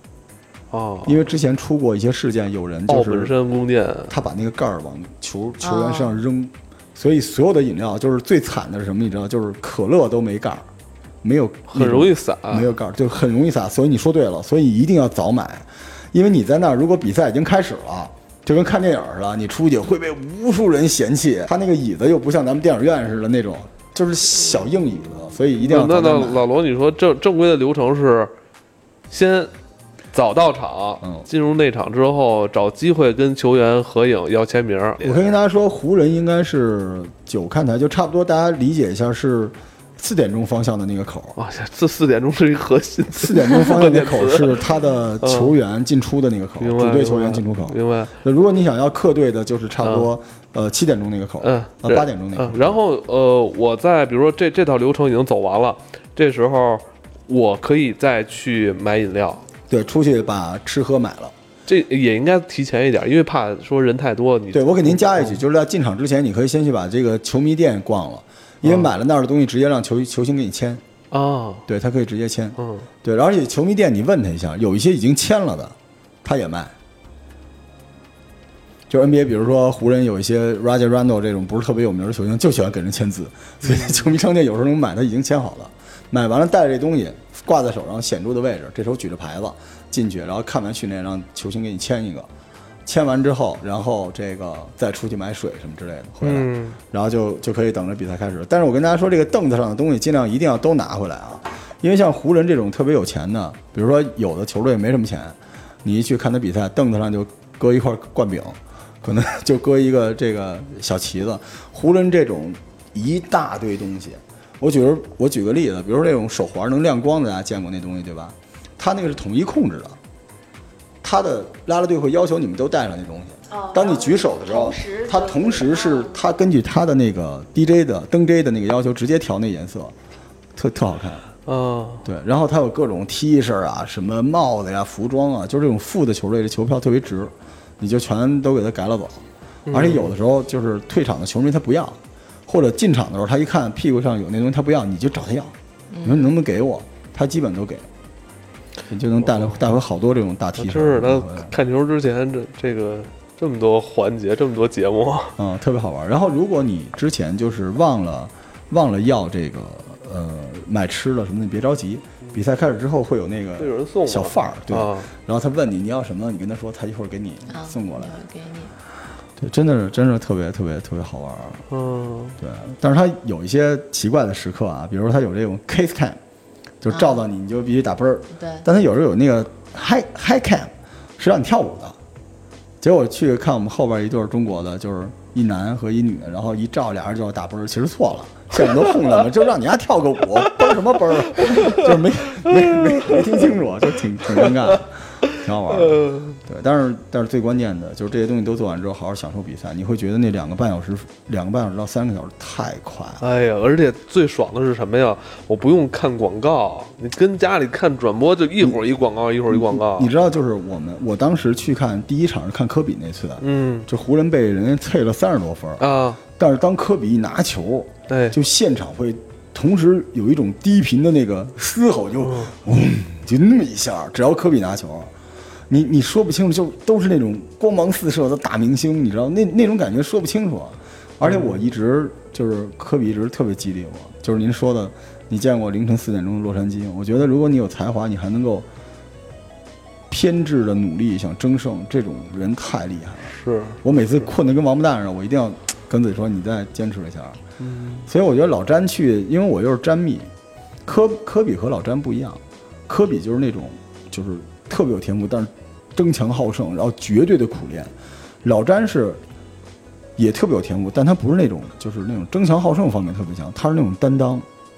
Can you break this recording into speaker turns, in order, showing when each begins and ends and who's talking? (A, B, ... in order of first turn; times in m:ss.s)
0:00.7-0:01.2 A
0:01.0-0:03.3 B
0:02.9-0:04.1 A
0:04.1-0:10.6 B
0:05.6-0:06.2 C
0:11.2-0:26.4 B
0:11.7-0:12.7 A
0:25.6-0:28.3 A
0:29.1-0:29.5 A
0:30.1-0:35.2 A
0:35.0-0:41.4 B
0:41.4-0:44.6 A
0:43.1-0:52.7 B
0:45.2-0:45.5 A
0:46.6-0:48.1 A
0:49.8-0:50.1 A
0:51.4-0:59.4 A
0:59.7-1:01.3 B
1:01.7-1:05.4 A
1:04.5-1:10.8 B
1:08.6-1:08.9 A
1:11.1-1:11.6 A
1:11.7-1:16.7 B
1:12.6-1:12.9 A
1:18.9-1:32.3 B
1:32.8-2:00.0 B
1:36.2-1:36.8 A
2:01.0-2:09.9 B
2:03.5-2:06.3 C
2:10.5-2:11.2 B
2:11.4-2:12.0 A
2:12.0-2:27.9 B
2:19.7-2:20.1 A
2:25.9-2:26.3 C
2:28.9-2:31.5 B
2:30.6-2:35.4 A
2:35.4-2:48.1 B
2:43.6-2:45.1 A
2:47.5-2:48.7 C
2:49.4-2:51.6 B
2:51.7-2:52.4 A
2:52.4-2:56.2 B
2:56.8-3:02.0 B
2:56.9-2:57.2 C
2:58.4-2:58.6 C
3:02.8-3:23.2 B
3:11.5-3:11.8 A
3:15.8-3:16.3 A
3:23.2-3:30.1 A
3:29.5-3:45.1 B
3:33.4-3:33.9 A
3:35.8-3:36.2 A
3:38.1-3:38.4 A
3:42.2-3:42.5 A
3:45.7-3:58.7 B
3:51.2-3:51.6 A
4:00.1-4:07.4 B
4:03.3-4:03.8 A
4:07.6-4:08.1 A
4:08.0-4:10.3 B
4:10.8-4:19.2 B
4:20.2-4:24.4 B